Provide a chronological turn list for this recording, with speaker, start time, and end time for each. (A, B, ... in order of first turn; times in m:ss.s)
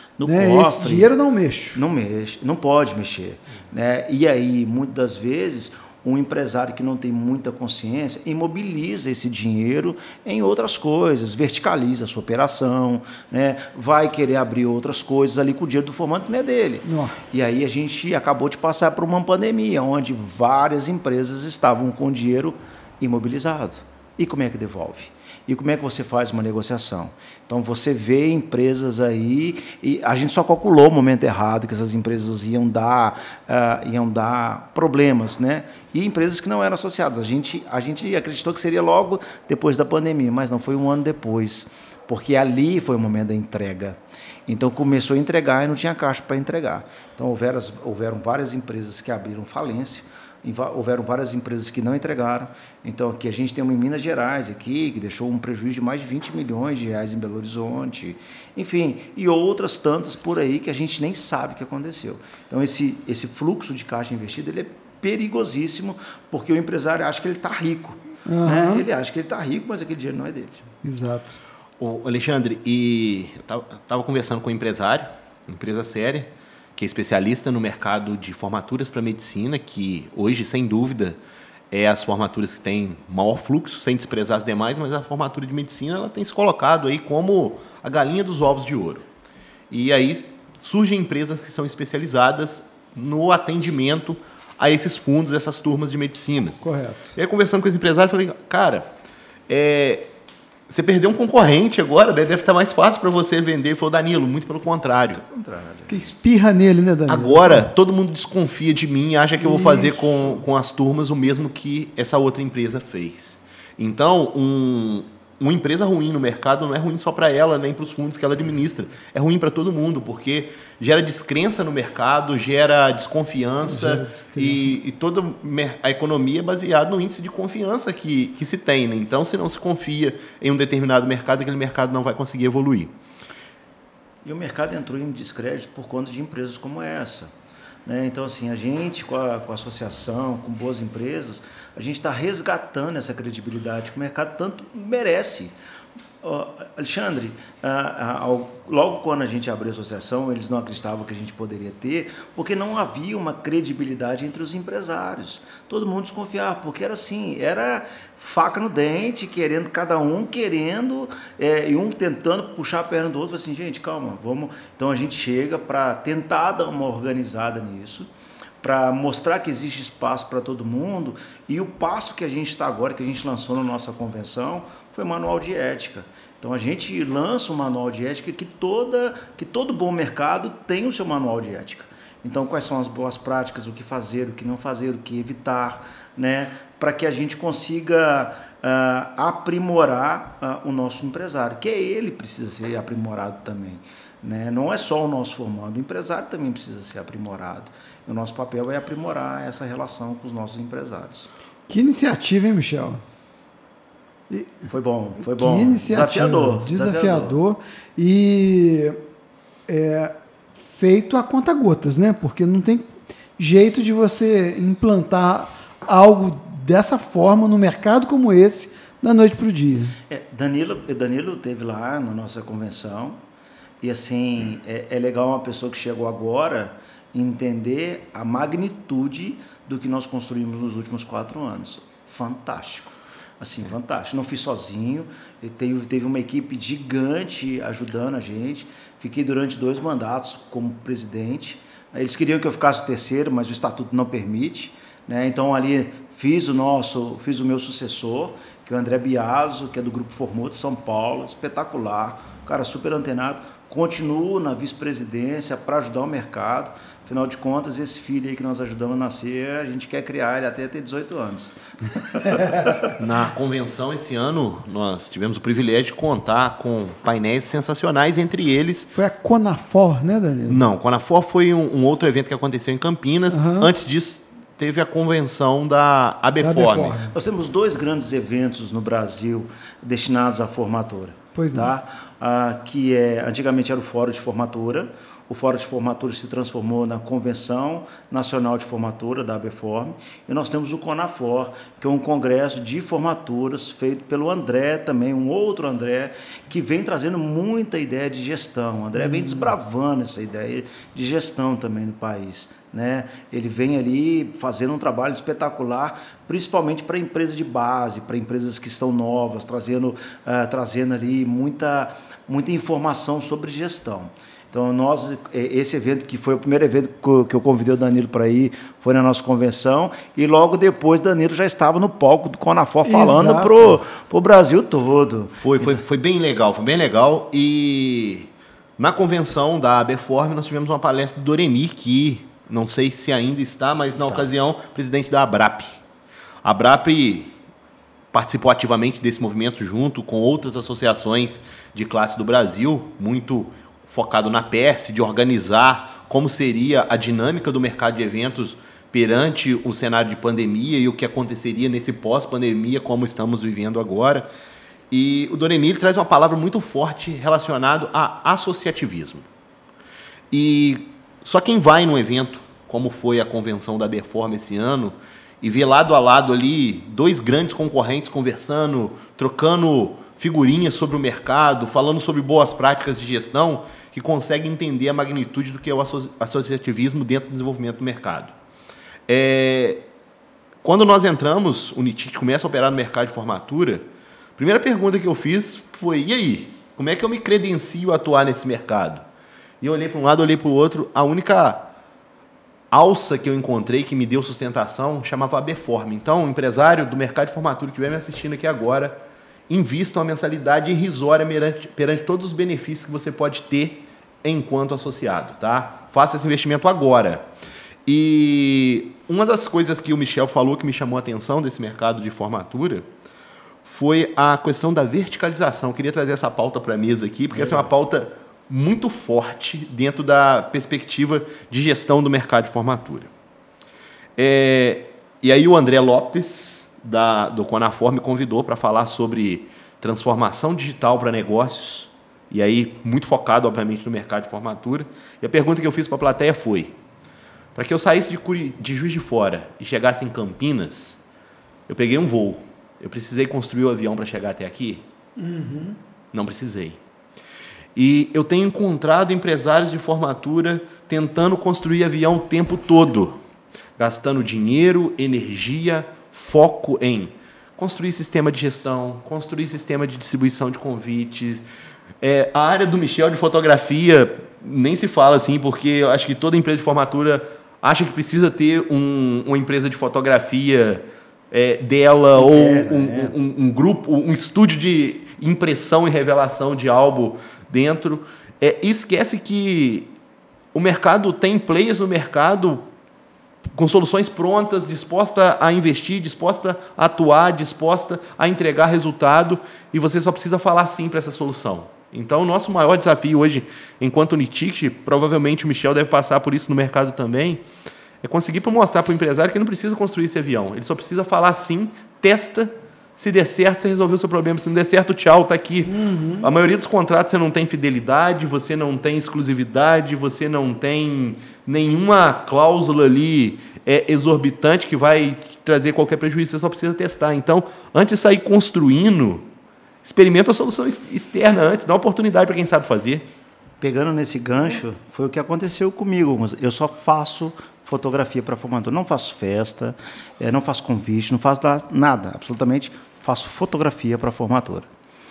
0:00.2-0:01.1 A
0:00.2-0:01.8 B
0:01.7-1:10.6 A
0:16.8-0:17.2 B
1:08.2-1:08.8 B
1:10.8-1:11.4 B
1:11.8-1:21.2 C
1:21.7-1:29.0 C
1:29.7-1:36.6 C
1:36.6-1:37.1 B
1:37.2-1:38.9 C
1:39.5-1:40.1 C
1:40.7-1:45.2 C
1:45.1-1:46.0 A
1:45.9-1:47.7 B
1:47.1-2:12.9 C
1:49.4-1:50.4 B
2:03.6-2:04.8 B
2:14.2-2:17.3 A
2:17.8-2:25.5 A
2:26.2-2:48.1 A
2:48.6-3:21.3 A
3:21.7-3:23.0 B
3:24.3-3:24.6 B
3:24.7-3:27.4 A
3:25.2-3:29.0 B
3:29.7-3:30.1 B
3:30.7-3:40.0 B
3:40.1-3:43.2 A
3:43.8-4:22.6 A
4:23.0-4:28.9 C
4:28.9-4:30.6 B
4:30.5-4:37.0 C
4:33.3-4:33.7 B
4:36.4-4:37.1 B
4:37.1-5:25.8 A
4:41.3-4:41.7 B
4:59.0-4:59.5 B
5:22.8-5:23.7 B
5:25.4-5:35.8 C
5:33.9-5:34.3 A
5:36.4-5:37.3 C
5:38.1-5:54.3 C
5:54.9-5:59.3 C
6:00.3-6:18.3 C
6:19.1-6:19.8 C
6:20.6-6:23.8 C
6:24.4-6:29.0 C
6:29.6-6:31.7 C
6:32.7-6:39.0 C
6:39.5-6:47.2 C
6:47.8-6:52.9 C
6:53.6-7:03.1 C
6:57.4-6:57.6 A
7:04.2-7:16.7 C
7:17.5-7:21.0 C
7:21.7-7:24.8 C
7:25.2-7:25.8 B
7:26.1-7:26.8 C
7:27.7-7:33.2 C
7:33.8-7:41.4 C
7:42.0-7:59.9 C
7:52.1-7:53.1 A
8:00.5-8:02.6 C
8:03.5-8:17.4 C
8:18.0-8:39.2 C
8:25.6-8:26.3 B
8:39.8-8:43.0 C
8:43.6-8:54.7 A